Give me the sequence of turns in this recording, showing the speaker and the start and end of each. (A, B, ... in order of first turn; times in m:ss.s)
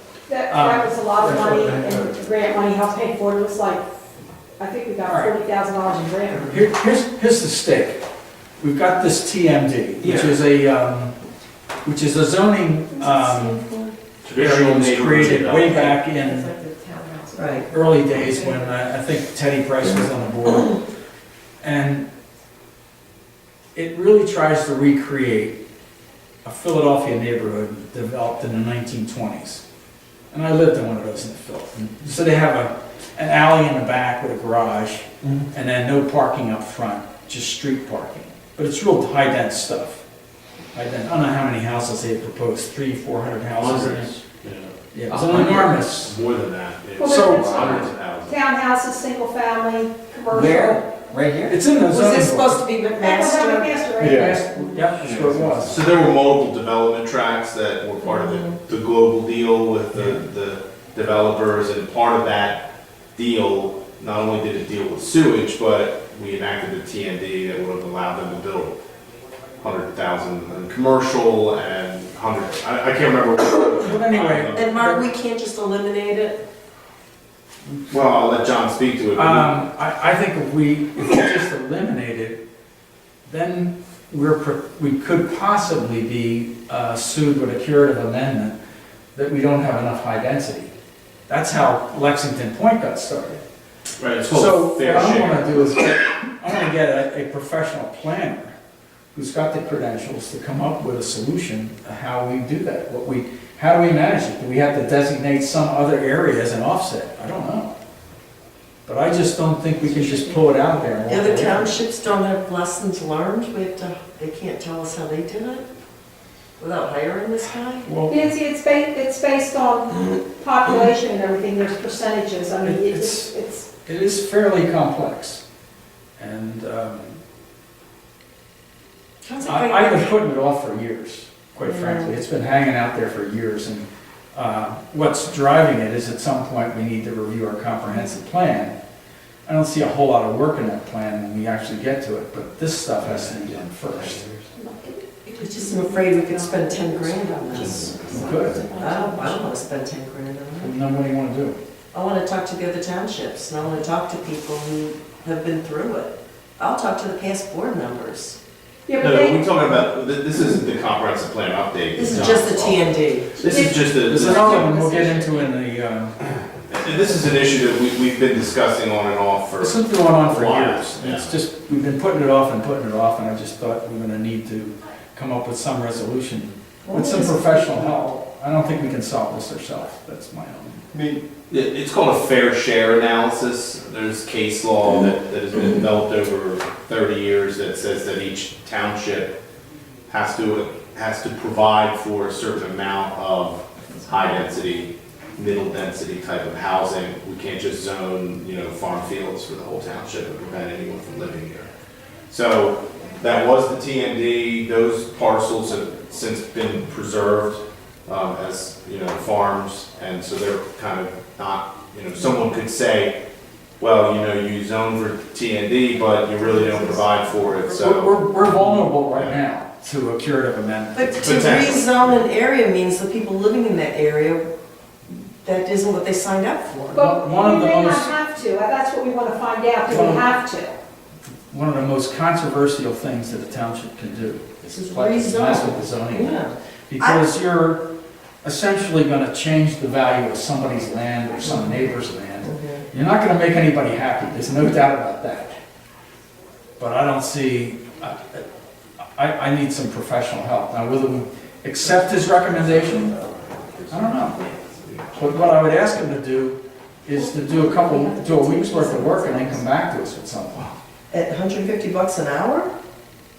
0:00.3-0:03.8 A
0:00.5-0:02.1 B
0:04.6-0:06.6 A
0:05.0-0:05.3 B
0:06.5-0:08.0 B
0:08.6-0:11.1 B
0:10.0-0:10.4 C
0:11.8-0:13.6 B
0:13.1-0:13.5 A
0:13.6-0:13.9 D
0:14.2-0:16.0 C
0:14.3-0:16.5 B
0:16.2-0:18.9 E
0:17.3-0:17.6 D
0:17.7-0:20.8 B
0:21.6-0:22.1 B
0:23.7-0:25.6 B
0:26.4-0:29.6 B
0:30.3-0:40.0 B
0:40.7-0:44.2 B
0:43.6-0:44.7 C
0:44.9-0:46.2 B
0:45.1-0:45.7 F
0:46.0-0:48.4 C
0:47.0-0:51.0 A
0:47.0-0:47.9 B
0:50.3-0:51.6 F
0:51.5-0:52.6 B
0:51.9-0:53.7 D
0:53.0-0:54.9 A
0:54.0-0:55.8 B
0:54.0-0:54.4 C
0:55.0-1:02.6 C
0:58.0-0:58.5 D
1:03.2-1:08.8 C
1:09.6-1:14.7 C
1:13.8-1:15.0 B
1:14.6-1:16.4 D
1:17.9-1:19.6 C
1:19.2-1:22.4 B
1:23.2-1:28.5 B
1:29.2-1:30.7 B
1:31.3-1:33.4 B
1:34.0-1:35.7 C
1:34.3-1:38.5 B
1:39.1-1:47.7 B
1:48.8-1:51.8 B
1:51.1-1:55.6 D
1:56.6-1:57.9 D
1:57.8-1:58.3 B
1:58.1-2:03.7 A
2:02.6-2:03.3 B
2:03.8-2:05.4 B
2:06.2-2:07.2 B
2:09.2-2:10.1 D
2:09.4-2:18.7 B
2:11.6-2:12.1 D
2:19.4-2:24.2 B
2:23.1-2:24.4 C
2:24.6-2:25.2 A
2:25.2-2:29.7 E
2:25.4-2:28.0 D
2:27.5-2:28.0 C
2:28.1-2:28.6 B
2:28.7-2:30.7 D
2:30.6-2:31.6 B
2:31.9-2:38.4 D
2:38.9-2:39.5 A
2:39.0-2:44.7 C
2:42.0-2:43.3 D
2:43.4-2:45.5 A
2:44.0-2:46.1 B
2:46.7-2:51.3 C
2:49.6-3:00.8 B
2:56.8-2:58.1 D
3:01.5-3:09.4 C
3:10.1-3:21.7 C
3:22.3-3:33.2 C
3:33.8-3:39.4 C
3:36.4-3:37.0 D
3:37.7-3:41.7 B
3:40.9-3:44.5 D
3:41.2-3:42.2 C
3:45.1-3:47.0 D
3:46.9-3:50.8 A
3:46.9-3:48.1 B
3:49.9-3:50.2 B
3:51.5-3:57.8 B
3:54.7-3:57.2 D
3:58.4-4:05.6 B
4:01.4-4:01.8 D
4:02.4-4:02.8 D
4:06.8-4:08.4 B
4:09.2-4:13.1 B
4:13.7-4:15.1 C
4:13.9-4:14.4 B
4:15.1-4:20.7 B
4:17.1-4:19.6 A
4:21.1-4:22.7 D